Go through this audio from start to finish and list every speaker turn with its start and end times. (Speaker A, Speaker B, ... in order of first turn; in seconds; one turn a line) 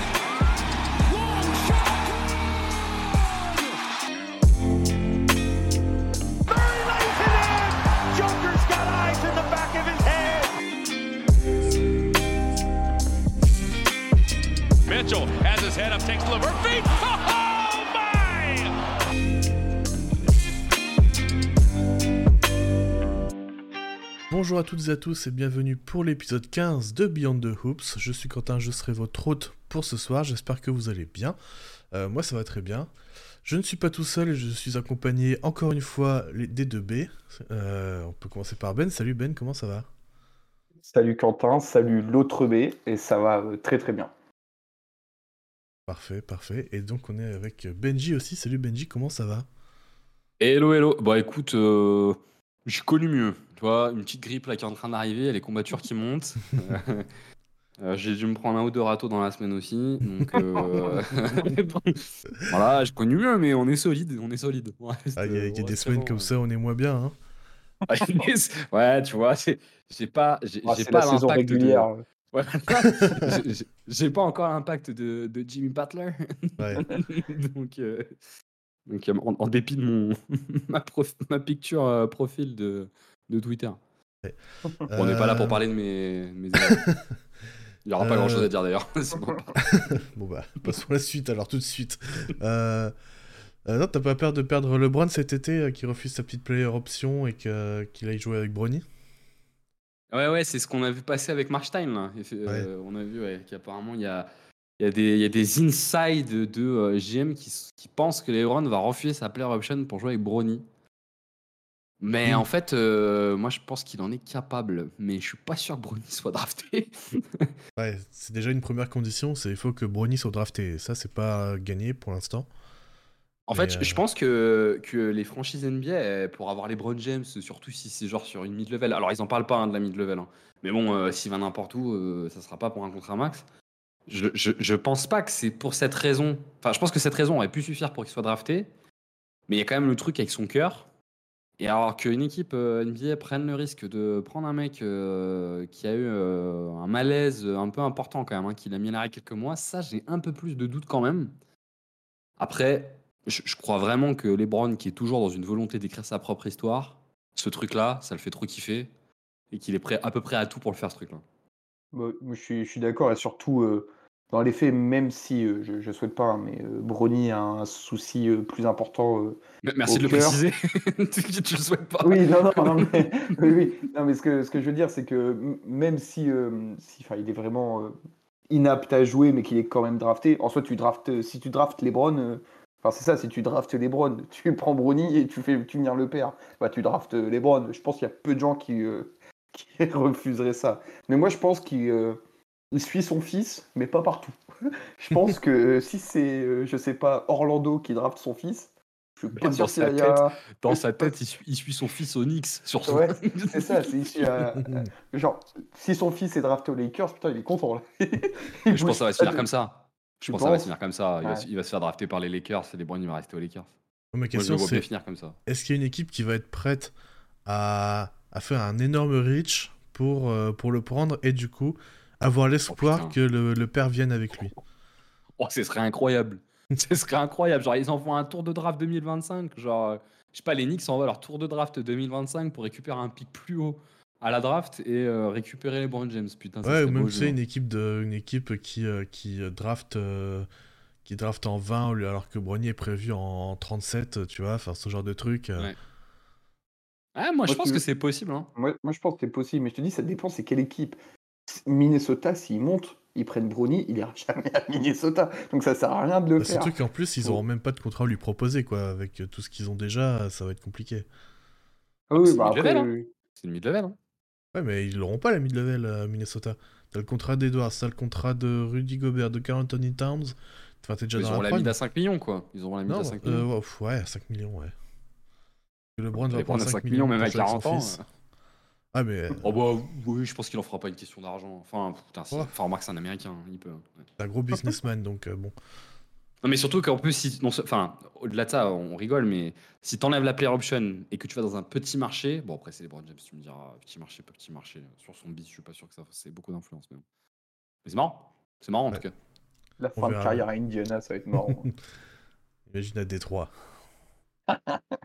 Speaker A: 1.1-2.0
Speaker A: 6.5-10.5
Speaker A: 14.8-18.8
Speaker B: 24.3-31.4
Speaker B: 31.9-32.9
Speaker B: 33.4-39.9
Speaker C: 40.9-44.1
Speaker B: 45.9-49.5
Speaker D: 50.4-57.1
Speaker D: 57.8-66.3
Speaker B: 65.2-67.2
Speaker D: 67.9-78.2
Speaker C: 70.7-72.0
Speaker B: 76.6-76.9
Speaker D: 78.9-83.8
Speaker B: 84.2-85.6
Speaker D: 84.9-86.9
Speaker B: 86.6-87.1
Speaker D: 87.8-89.6
Speaker B: 88.0-88.5
Speaker B: 89.6-93.0
Speaker B: 93.7-98.8
Speaker D: 100.1-104.3
Speaker D: 104.8-110.7
Speaker D: 112.0-117.5
Speaker B: 117.8-122.5
Speaker D: 123.5-133.4
Speaker B: 123.5-124.0
Speaker D: 134.1-138.7
Speaker D: 139.5-140.9
Speaker D: 141.6-151.3
Speaker D: 152.4-158.9
Speaker D: 159.5-161.2
Speaker C: 161.9-170.4
Speaker D: 169.7-173.5
Speaker C: 172.0-178.0
Speaker C: 178.5-192.2
Speaker C: 192.7-200.8
Speaker D: 199.4-203.8
Speaker C: 202.8-209.5
Speaker D: 208.7-213.7
Speaker C: 210.3-210.7
Speaker B: 214.1-214.8
Speaker D: 214.3-215.4
Speaker B: 215.5-216.9
Speaker B: 217.4-224.6
Speaker D: 222.7-223.2
Speaker D: 225.4-237.4
Speaker B: 236.6-240.5
Speaker B: 241.0-245.7
Speaker D: 247.2-248.5
Speaker C: 247.5-247.8
Speaker C: 248.6-257.4
Speaker B: 256.4-261.1
Speaker C: 262.1-263.1
Speaker D: 262.2-264.0
Speaker B: 264.5-271.8
Speaker D: 271.1-273.5
Speaker B: 272.9-274.7
Speaker B: 276.0-278.0
Speaker D: 276.1-278.0
Speaker B: 278.9-279.5
Speaker D: 279.4-284.1
Speaker B: 284.2-285.6
Speaker D: 286.4-297.1
Speaker D: 297.9-299.1
Speaker C: 299.8-301.7
Speaker B: 300.0-300.4
Speaker B: 302.7-303.5
Speaker C: 304.5-304.8